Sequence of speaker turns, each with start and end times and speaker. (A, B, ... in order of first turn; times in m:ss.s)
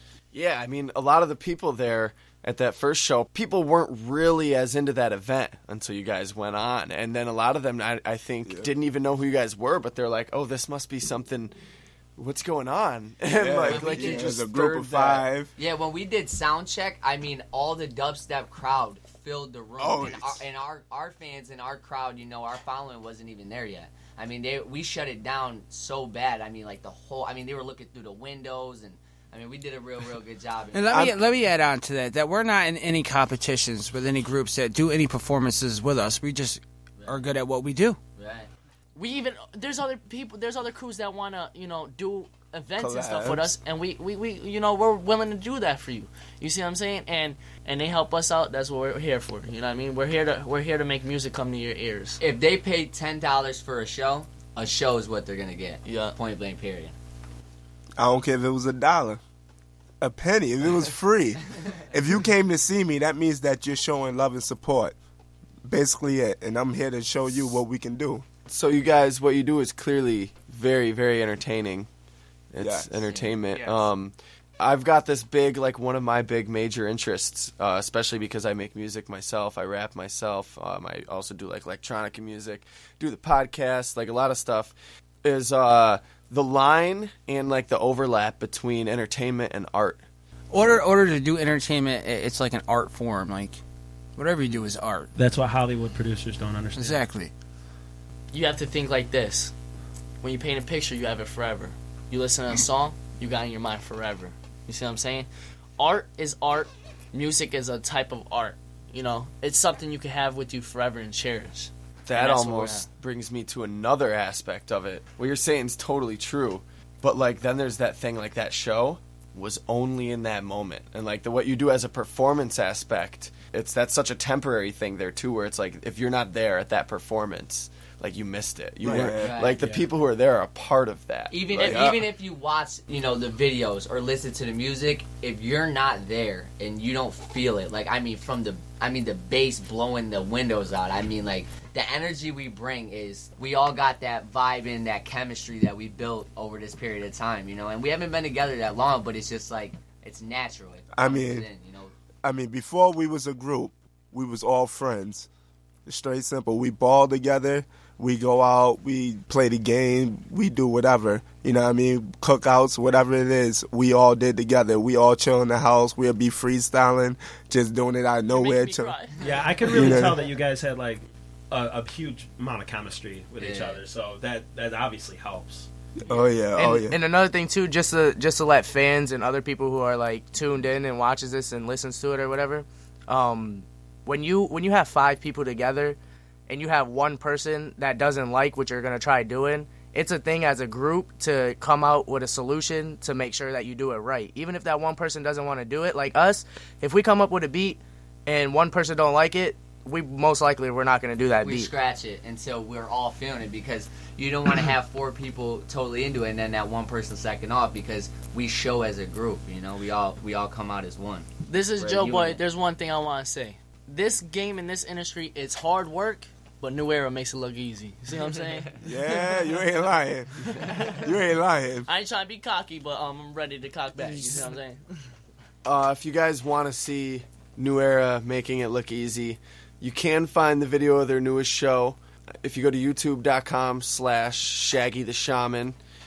0:00.3-0:11.5 A
0:12.2-0:15.3 A
0:13.3-0:15.5 B
0:13.6-0:14.4 C
0:15.6-0:31.2 C
0:19.8-0:20.4 B
0:30.7-0:38.0 D
0:37.0-0:37.3 C
0:38.2-0:38.5 C
0:38.9-0:52.2 E
0:42.8-0:43.5 B
0:52.2-0:56.9 C
0:55.8-0:56.1 E
0:58.0-0:59.2 B
1:00.0-1:04.9 B
1:05.6-1:08.2 B
1:08.5-1:11.9 A
1:12.5-1:30.0 A
1:12.6-1:12.9 B
1:13.5-1:13.9 F
1:30.5-1:33.6 D
1:34.2-1:35.1 D
1:35.2-1:37.0 G
1:36.8-1:37.3 D
1:38.3-1:39.5 E
1:40.2-1:52.9 E
1:52.1-2:11.8 A
2:08.8-2:09.4 B
2:09.1-2:09.6 C
2:09.6-2:09.8 G
2:11.3-2:31.9 C
2:11.6-2:12.1 B
2:30.9-2:31.5 B
2:32.2-2:35.3 B
2:35.8-2:48.9 B
2:48.3-2:50.0 E
2:49.2-2:55.7 G
2:49.7-2:50.2 B
2:53.4-2:53.8 C
2:56.0-2:57.0 B
2:56.5-3:21.7 F
3:21.4-3:32.4 C
3:31.5-3:38.7 E
3:38.8-3:41.9 B
3:40.6-3:41.0 E
3:41.9-3:44.8 E
3:45.6-3:55.8 A